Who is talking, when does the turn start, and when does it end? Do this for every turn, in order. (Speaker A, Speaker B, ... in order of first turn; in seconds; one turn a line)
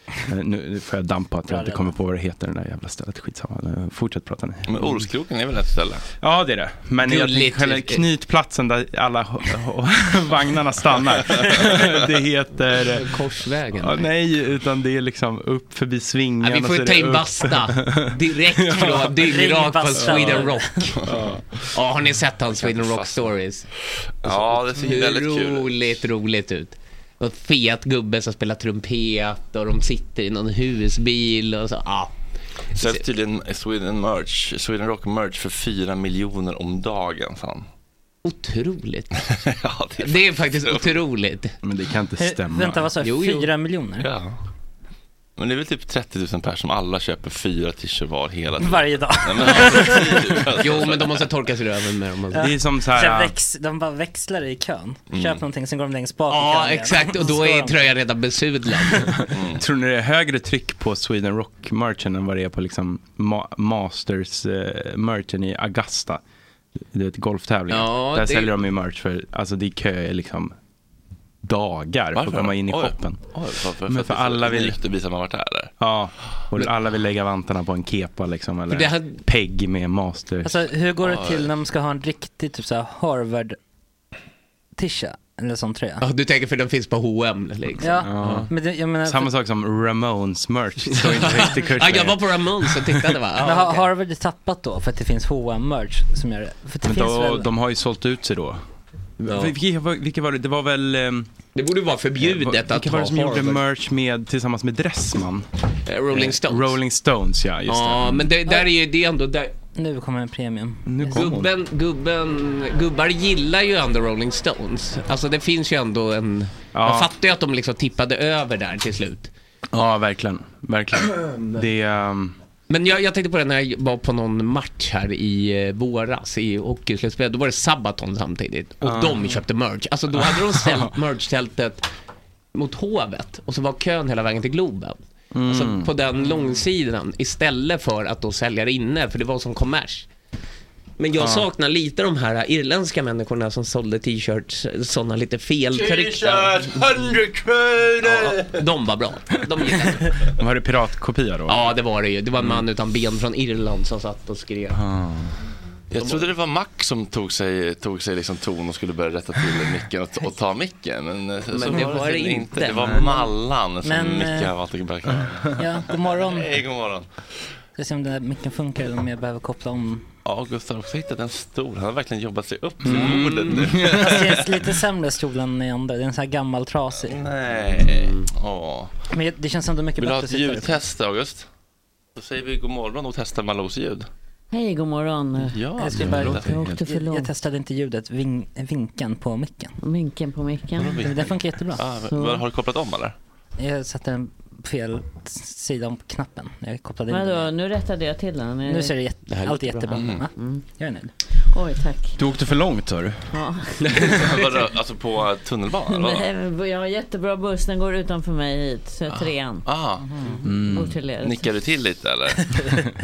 Speaker A: 0.3-5.0
Speaker B: 1.5-1.9
Speaker C: 4.7-6.0
Speaker A: 6.2-13.2
Speaker D: 7.0-8.1
Speaker C: 11.3-11.8
Speaker D: 12.8-14.1
Speaker A: 13.8-19.1
Speaker D: 16.4-21.0
Speaker B: 18.8-20.9
Speaker A: 20.0-20.4
Speaker C: 21.0-21.4
Speaker A: 21.1-21.4
Speaker D: 21.7-23.7
Speaker C: 22.5-23.4
Speaker C: 24.2-25.9
Speaker D: 24.2-32.2
Speaker D: 32.7-33.1
Speaker C: 32.8-37.7
Speaker D: 38.2-39.1
Speaker C: 39.3-41.0
Speaker D: 40.0-41.6
Speaker A: 41.6-42.9
Speaker B: 42.2-44.1
Speaker D: 43.0-43.5
Speaker C: 44.0-44.4
Speaker C: 45.4-51.3
Speaker B: 48.6-50.4
Speaker D: 50.6-52.5
Speaker B: 52.3-57.9
Speaker A: 52.4-53.4
Speaker C: 55.1-55.4
Speaker D: 56.3-59.2
Speaker C: 59.3-59.6
Speaker A: 59.6-66.2
Speaker A: 66.9-70.5
Speaker D: 67.7-68.5
Speaker A: 71.4-73.2
Speaker C: 72.1-75.7
Speaker A: 73.9-74.8
Speaker A: 75.8-80.7
Speaker D: 78.7-79.2
Speaker B: 80.4-83.6
Speaker C: 81.0-81.5
Speaker B: 84.8-86.0
Speaker D: 86.0-88.5
Speaker B: 87.8-89.3
Speaker A: 88.0-93.2
Speaker D: 90.9-93.9
Speaker B: 93.4-97.5
Speaker A: 96.8-98.6
Speaker D: 99.2-99.5
Speaker A: 99.3-101.3
Speaker D: 101.5-103.6
Speaker A: 102.2-105.5
Speaker D: 105.9-106.8
Speaker A: 106.1-108.3
Speaker D: 107.7-109.5
Speaker B: 109.8-111.2
Speaker A: 110.9-111.5
Speaker D: 111.1-119.3
Speaker A: 116.7-117.1
Speaker A: 119.7-122.3
Speaker D: 122.7-131.9
Speaker A: 128.8-129.4
Speaker A: 130.2-130.9
Speaker D: 132.5-140.1
Speaker A: 135.3-135.9
Speaker D: 141.0-147.0
Speaker A: 141.2-141.5
Speaker C: 145.7-148.6
Speaker D: 148.0-150.2
Speaker A: 150.4-151.7
Speaker D: 151.5-154.8
Speaker A: 154.7-155.3
Speaker C: 155.9-167.1
Speaker D: 156.0-156.3
Speaker D: 161.5-163.3
Speaker B: 163.8-164.5
Speaker B: 165.6-166.6
Speaker B: 167.8-170.1
Speaker C: 170.2-174.5
Speaker A: 172.8-174.1
Speaker D: 172.8-173.8
Speaker B: 173.9-177.2
Speaker C: 177.0-178.9
Speaker D: 177.7-178.3
Speaker B: 179.1-180.8
Speaker C: 180.0-181.5
Speaker C: 182.2-184.1
Speaker E: 184.5-187.3
Speaker C: 185.5-186.7
Speaker B: 185.8-189.8
Speaker E: 189.8-191.1
Speaker C: 190.8-193.2
Speaker B: 191.0-191.8
Speaker E: 192.0-192.4
Speaker B: 193.6-197.5
Speaker E: 197.1-199.0
Speaker B: 198.7-201.1
Speaker D: 199.3-200.0
Speaker C: 199.9-200.2
Speaker E: 200.3-200.6
Speaker E: 201.5-202.3
Speaker A: 202.2-203.4
Speaker E: 203.3-203.9
Speaker C: 204.0-206.3
Speaker E: 205.9-209.7
Speaker C: 209.1-210.1
Speaker A: 210.4-211.0
Speaker E: 210.5-211.6
Speaker C: 211.2-212.6